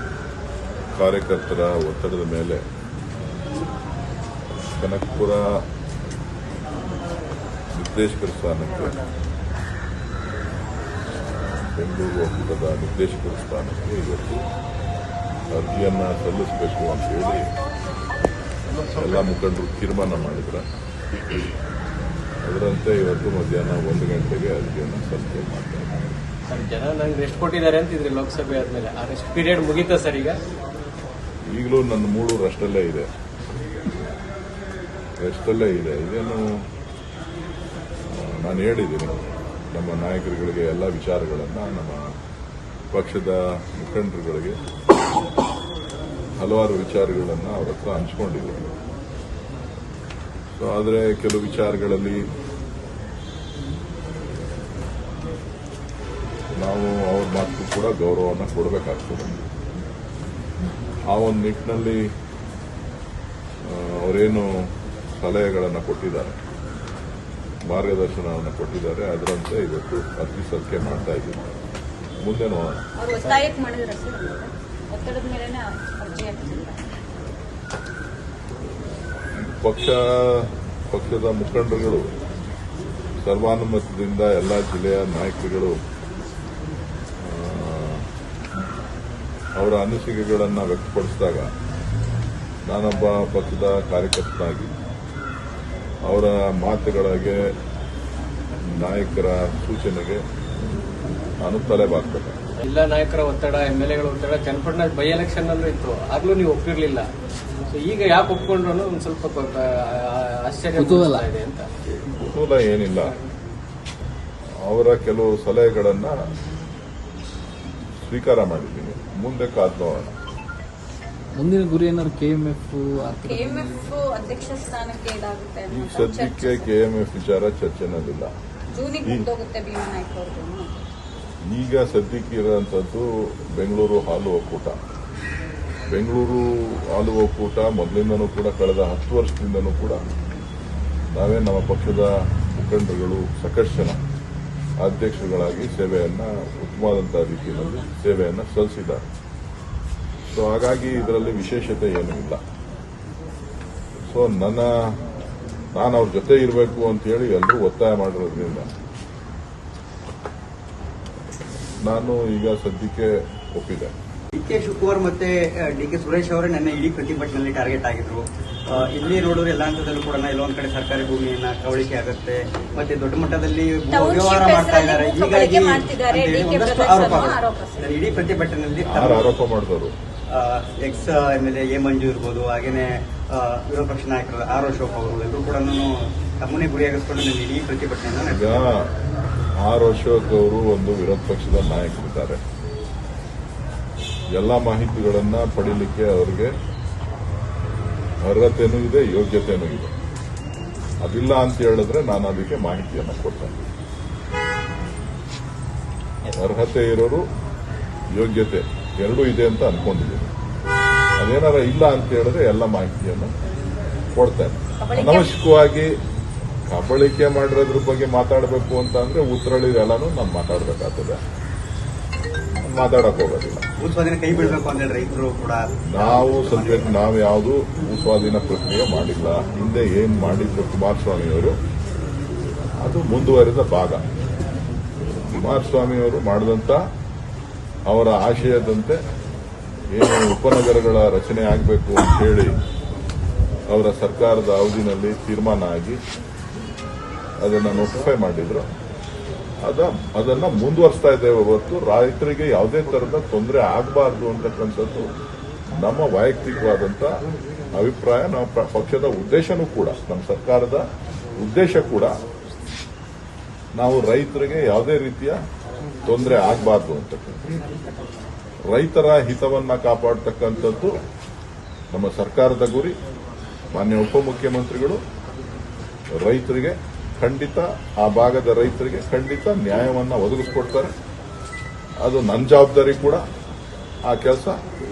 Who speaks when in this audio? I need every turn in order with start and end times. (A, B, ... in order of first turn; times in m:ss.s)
0:01.0-0:02.6 A
0:04.8-0:05.6 A
0:07.8-0:09.0 A
0:11.1-0:14.4 A
0:15.5-0:17.5 A
0:18.9-0:20.7 A
0:22.4-0:26.0 A
0:26.5-0:30.4 B
0:31.5-0:33.1 A
0:35.2-0:36.6 A
0:38.1-0:39.2 A
0:39.7-0:42.1 A
0:42.9-0:44.6 A
0:46.4-0:48.7 A
0:50.6-0:52.2 A
0:56.6-0:59.4 A
1:01.1-1:02.0 A
1:03.6-1:06.4 A
1:07.7-1:11.4 A
1:12.2-1:12.8 A
1:13.0-1:16.8 C
1:19.4-1:22.1 A
1:23.2-1:25.8 A
1:27.2-1:28.1 A
1:29.6-1:31.5 A
1:32.7-1:34.7 A
1:36.0-1:37.5 A
1:38.7-1:40.2 A
1:41.4-1:42.4 A
1:42.6-1:47.1 B
1:47.7-1:51.7 B
1:50.8-1:51.3 D
1:52.0-1:53.1 A
1:53.0-1:53.2 B
1:54.6-1:56.2 A
1:58.0-2:00.2 A
2:01.4-2:03.9 D
2:03.2-2:06.7 C
2:05.7-2:08.3 A
2:08.7-2:10.7 C
2:11.5-2:14.8 A
2:15.9-2:20.0 A
2:21.1-2:24.0 A
2:24.8-2:29.1 A
2:30.3-2:32.4 A
2:34.1-2:34.9 A
2:35.7-2:38.7 A
2:41.8-2:43.9 A
2:44.3-2:59.3 E
2:53.9-2:57.9 C
2:58.9-2:59.9 A
3:00.3-3:08.7 E
3:08.3-3:08.9 A
3:09.6-3:12.4 A
3:14.3-3:16.5 A
3:18.2-3:19.9 A
3:21.0-3:23.6 A
3:26.3-3:27.2 A
3:28.2-3:30.3 A
3:31.2-3:33.3 A
3:34.2-3:35.9 A
3:34.8-3:35.3 C
3:36.7-3:41.2 A
3:42.7-3:43.6 A
3:43.8-3:47.0 E
3:45.9-3:51.6 A
3:52.8-3:54.0 A
3:55.2-3:56.8 A
3:57.9-3:59.0 A
3:59.9-4:02.6 A
4:03.7-4:06.0 A
4:07.4-4:08.7 A
4:09.6-4:15.1 A
4:15.7-4:17.1 A
4:17.7-4:20.8 A
4:21.4-4:22.1 A
4:23.8-4:25.4 A
4:26.0-4:27.5 A
4:28.7-4:31.0 A
4:31.9-4:33.0 A
4:33.7-4:35.0 A
4:36.2-4:40.9 A
4:42.0-4:43.2 A
4:44.1-4:44.6 A